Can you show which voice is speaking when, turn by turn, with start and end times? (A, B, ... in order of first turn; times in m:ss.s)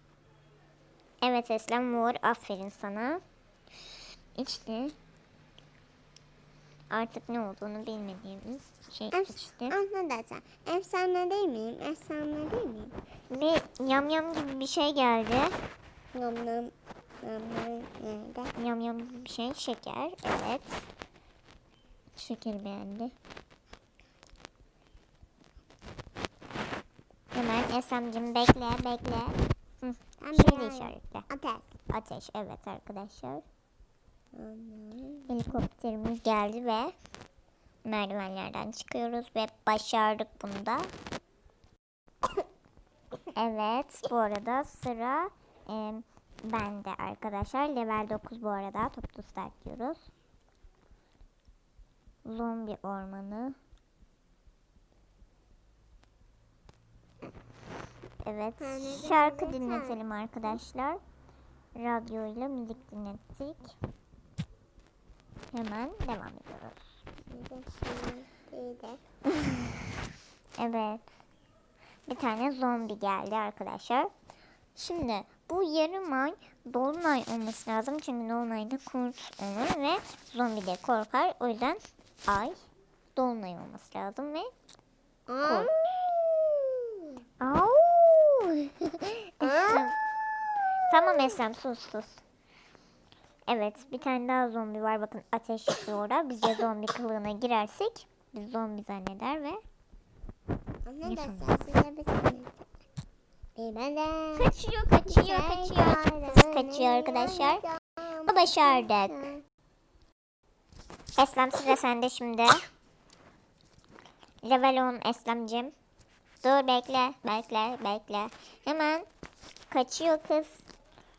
0:01.2-0:03.2 A
0:04.4-0:04.9 A
0:06.9-0:09.8 A
0:09.1-0:12.9 B
0:13.3-0:15.6 A
0:16.1-0:18.5 B
0:18.6-0:20.8 A
0:22.2-0:23.1 A
0:27.3-0:31.2 A
0:30.2-0:31.7 B
0:31.9-0:33.4 A
0:34.3-0:35.3 B
0:35.3-0:36.9 A
0:37.8-0:40.9 A
0:43.3-0:50.1 A
0:52.2-0:53.6 A
0:58.2-1:01.0 A
0:58.6-1:00.0 B
1:01.7-1:03.7 A
1:05.5-1:06.9 A
1:07.3-1:09.0 B
1:09.3-1:09.8 A
1:10.6-1:11.0 A
1:12.1-1:14.1 A
1:14.8-1:22.6 A
1:23.2-1:24.5 A
1:25.3-1:27.1 B
1:25.4-1:25.7 A
1:27.4-1:30.0 A
1:29.4-1:29.8 B
1:30.9-1:32.2 A
1:33.5-1:39.6 A
1:40.8-1:42.6 B
1:41.0-1:41.5 A
1:43.6-1:44.5 B
1:44.3-1:47.6 A
1:45.0-1:49.4 B
1:48.2-1:49.3 A
1:51.2-1:52.6 A
1:54.4-1:55.7 A
1:56.4-1:59.1 A
1:59.7-2:00.6 A